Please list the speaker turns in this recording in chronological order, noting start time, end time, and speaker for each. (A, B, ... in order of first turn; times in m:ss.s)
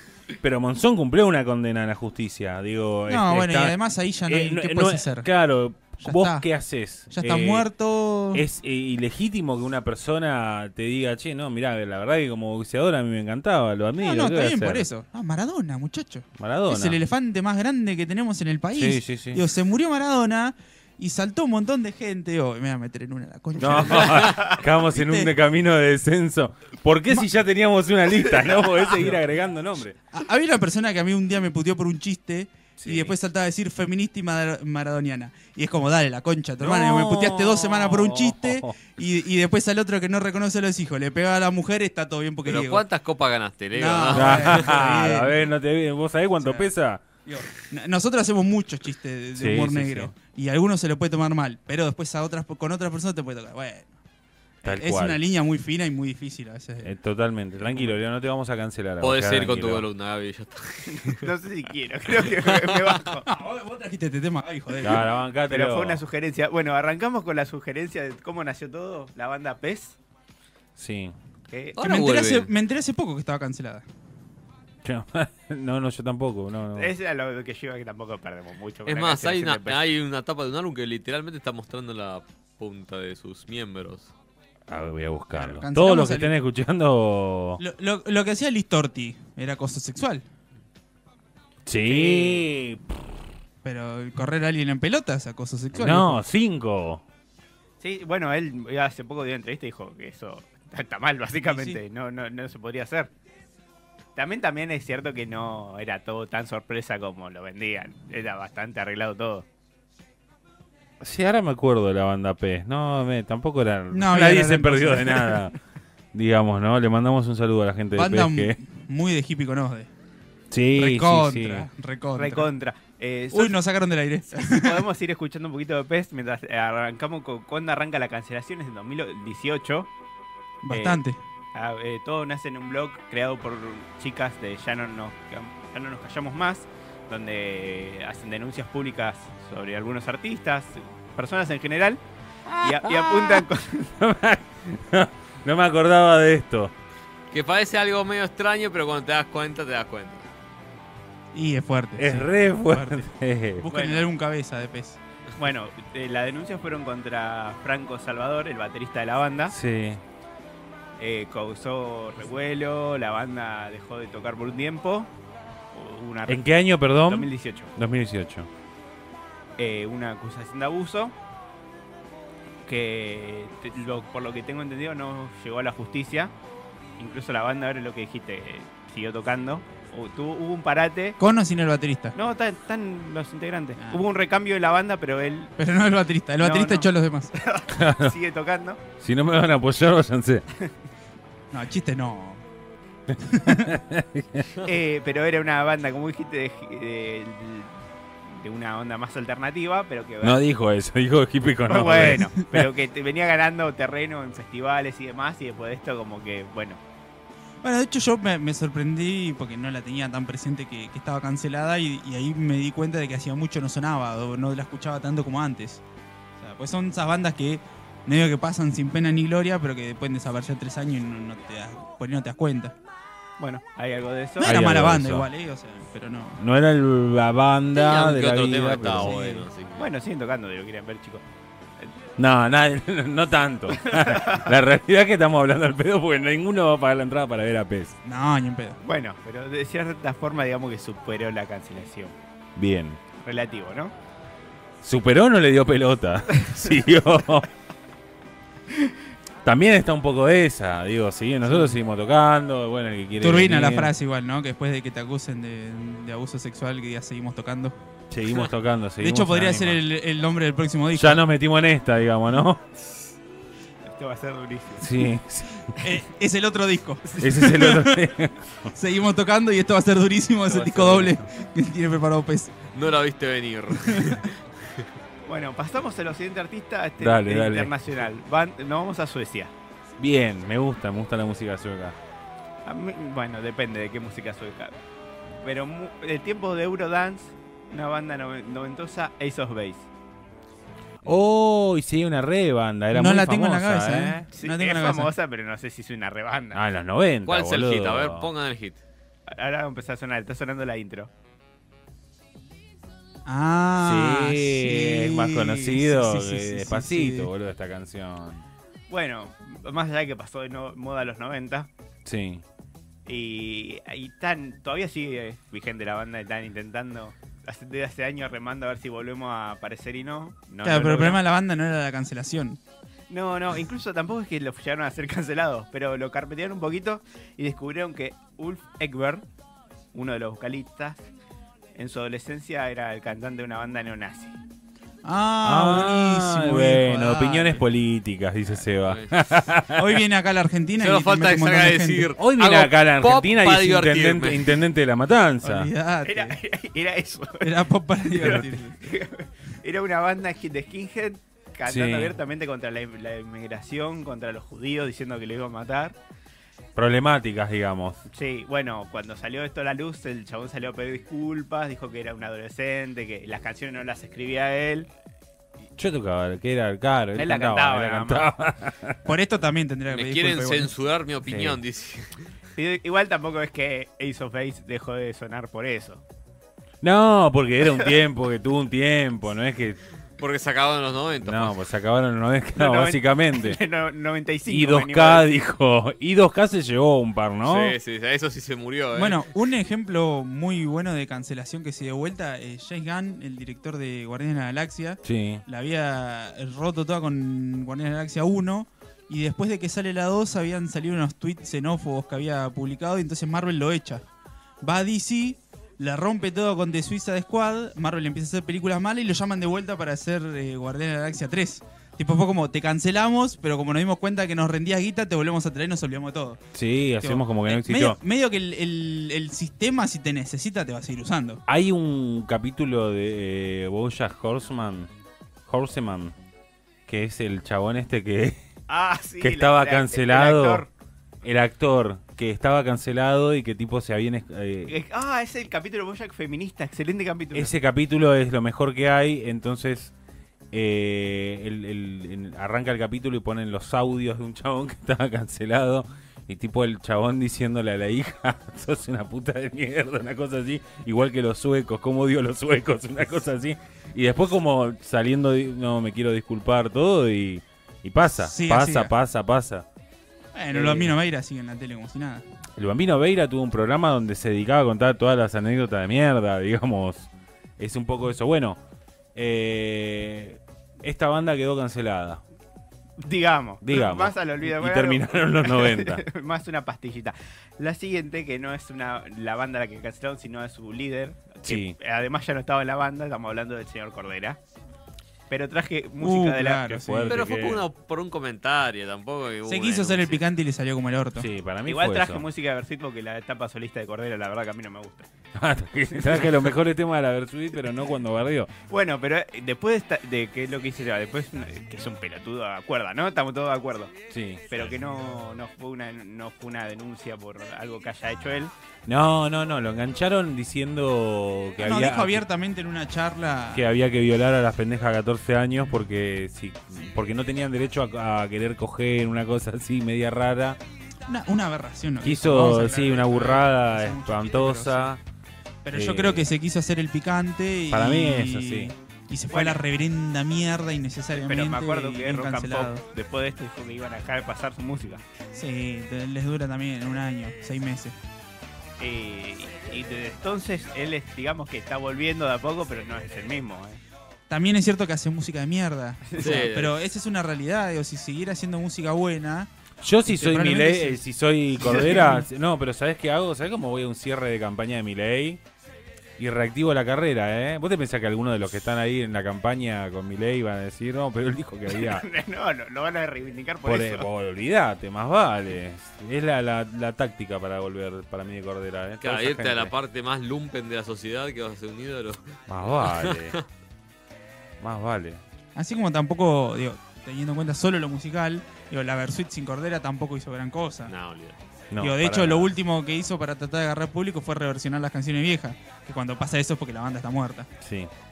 0:00.4-0:03.8 A
0:03.1-0:05.3 B
0:04.3-0:07.7 A
0:06.0-0:06.4 B
0:07.1-0:08.4 B
0:08.3-0:14.9 A
0:14.0-0:25.3 B
0:16.4-0:17.0 A
0:18.7-0:19.4 A
0:23.6-0:30.0 A
0:24.2-0:24.5 C
0:28.3-0:29.1 C
0:30.1-0:42.8 B
0:32.8-0:33.1 A
0:36.6-0:38.8 A
0:42.4-0:44.7 D
0:43.7-0:45.4 B
0:44.1-0:47.0 A
0:46.4-0:46.7 B
0:47.2-0:53.9 B
0:49.3-0:50.1 A
0:54.6-0:56.9 B
0:54.6-0:55.2 A
0:56.8-0:59.9 A
0:59.0-1:01.3 D
1:00.8-1:03.2 C
1:02.2-1:03.0 D
1:03.2-1:05.1 B
1:04.8-1:06.0 A
1:05.5-1:10.0 C
1:10.8-1:11.1 A
1:11.5-1:11.8 C
1:11.8-1:12.5 D
1:11.8-1:13.8 B
1:14.8-1:16.9 A
1:16.7-1:19.8 C
1:18.8-1:24.1 D
1:24.7-1:27.6 A
1:25.3-1:26.3 B
1:27.6-1:30.2 B
1:31.6-1:33.0 A
1:31.8-1:32.4 C
1:33.6-1:36.2 B
1:35.7-1:37.0 A
1:37.8-1:43.1 C
1:41.5-1:41.8 B
1:44.2-1:49.4 C
1:51.0-1:55.5 A
1:53.9-1:55.5 B
1:56.1-1:58.6 A
1:57.9-1:59.9 B
2:00.5-2:01.7 A
2:00.7-2:02.5 B
2:02.2-2:03.6 C
2:03.3-2:04.8 B
2:04.3-2:09.9 C
2:10.6-2:11.2 B
2:10.7-2:11.0 C
2:11.5-2:22.0 C
2:22.5-2:26.7 A
2:22.6-2:23.9 C
2:27.3-2:30.3 D
2:31.3-2:33.1 B
2:32.0-2:33.6 A
2:33.6-2:35.0 B
2:33.7-2:34.1 C
2:35.4-2:39.6 C
2:39.5-2:40.0 A
2:41.0-2:45.1 C
2:45.7-2:46.4 C
2:46.2-2:48.5 A
2:47.0-2:47.7 C
2:49.6-2:51.2 C
2:52.6-2:56.3 C
2:57.0-3:01.2 C
3:01.2-3:02.2 B
3:02.2-3:05.5 C
3:05.6-3:07.3 B
3:06.4-3:08.8 C
3:07.7-3:08.2 A
3:09.0-3:10.4 A
3:11.5-3:12.4 B
3:13.2-3:13.8 B
3:13.4-3:14.5 A
3:14.6-3:17.7 C
3:18.2-3:20.4 C
3:20.2-3:22.4 A
3:21.7-3:26.8 C
3:27.6-3:35.8 B
3:36.4-3:42.7 B
3:43.4-3:44.6 C
3:44.4-3:46.4 B
3:44.4-3:45.3 A
3:46.4-3:49.2 A
3:47.7-3:49.9 D
3:49.0-3:49.4 B
3:49.7-3:51.2 C
3:52.2-3:58.0 A
3:53.7-3:54.5 C
3:58.0-3:58.8 B
3:58.8-4:02.2 C
4:02.6-4:03.0 A
4:03.1-4:03.9 C
4:04.8-4:07.5 A
4:09.4-4:13.9 A
4:11.4-4:11.7 B
4:13.2-4:17.7 B
4:18.1-4:19.8 A
4:19.0-4:21.2 B
4:20.9-4:22.7 A
4:23.8-4:25.0 C
4:24.8-4:25.8 A
4:25.8-4:28.1 B
4:27.2-4:28.4 A
4:28.7-4:32.5 B
4:30.5-4:31.2 A
4:32.7-4:34.8 D
4:33.8-4:34.2 B
4:35.2-4:39.5 C
4:37.0-4:37.7 A
4:40.0-4:42.0 A
4:42.6-4:44.8 C
4:45.4-4:49.9 C
4:51.0-4:54.3 A
4:52.9-4:55.1 B
4:54.3-4:56.6 C
4:56.5-4:58.3 A
4:57.2-4:58.8 D
4:59.3-5:01.1 C
5:03.2-5:07.3 B
5:03.8-5:08.4 A
5:08.9-5:11.7 C
5:12.0-5:12.4 A
5:13.0-5:21.2 C
5:20.6-5:22.6 B
5:23.1-5:29.2 C
5:29.9-5:31.0 C
5:31.7-5:34.4 C
5:35.0-5:37.6 B
5:35.4-5:40.0 A
5:38.8-5:39.1 D
5:39.7-5:42.1 B
5:40.8-5:44.6 D
5:42.2-5:45.7 A
5:45.4-5:46.4 B
5:46.0-5:47.5 C
5:47.4-5:48.8 B
5:48.1-5:56.0 C
5:51.6-5:52.2 A
5:56.7-5:58.0 A
5:58.1-6:04.9 C
6:05.8-6:09.0 A
6:07.2-6:08.3 C
6:09.0-6:10.7 B
6:09.9-6:12.2 D
6:11.2-6:11.6 A
6:12.6-6:16.0 C
6:16.8-6:19.8 A
6:20.2-6:21.6 D
6:21.2-6:23.6 A
6:22.6-6:25.3 C
6:24.4-6:27.8 A
6:27.4-6:29.3 D
6:28.9-6:44.0 B
6:35.0-6:35.4 A
6:44.6-6:56.4 B
6:56.5-6:58.0 A
6:57.0-7:01.4 B
7:01.5-7:04.9 A
7:05.4-7:06.1 A
7:06.9-7:08.4 A
7:08.7-7:10.7 C
7:09.2-7:10.6 A
7:11.2-7:14.8 A
7:14.7-7:17.5 C
7:17.3-7:19.9 A
7:20.5-7:39.6 A
7:38.1-7:38.9 B
7:40.3-7:42.2 B
7:40.5-7:40.9 A
7:42.6-7:48.6 A
7:49.1-7:52.2 A
7:53.0-8:04.4 C
7:53.6-7:56.0 A
8:01.4-8:01.8 A
8:05.3-8:06.6 C
8:06.0-8:07.2 B
8:06.6-8:07.7 A
8:07.1-8:10.2 D
8:09.5-8:11.3 B
8:11.2-8:12.2 A
8:11.6-8:15.1 C
8:15.3-8:18.5 A
8:15.9-8:16.5 C
8:18.7-8:23.9 C
8:24.1-8:24.7 A
8:24.5-8:28.5 C
8:28.8-8:32.2 A
8:31.6-8:33.6 B
8:33.5-8:40.6 A
8:41.1-8:44.9 B
8:42.0-8:45.0 A
8:45.6-8:52.8 B
8:45.7-8:46.3 A
8:47.7-8:48.7 A
8:49.3-8:49.6 C
8:51.1-8:55.0 C
8:55.3-8:58.0 B
8:58.8-9:03.8 C
9:04.3-9:09.5 B
9:06.0-9:06.5 C
9:06.2-9:06.8 D
9:09.8-9:15.4 A
9:10.0-9:11.0 B
9:11.6-9:12.2 B
9:11.6-9:12.1 C
9:16.2-9:22.0 A
9:21.7-9:24.1 C
9:23.6-9:29.7 A
9:29.0-9:33.4 D
9:32.5-9:33.4 A
9:34.6-9:35.2 A
9:35.5-9:40.9 B
9:40.9-9:41.4 D
9:41.7-9:42.5 A
9:41.8-9:47.5 B
9:47.6-9:47.9 A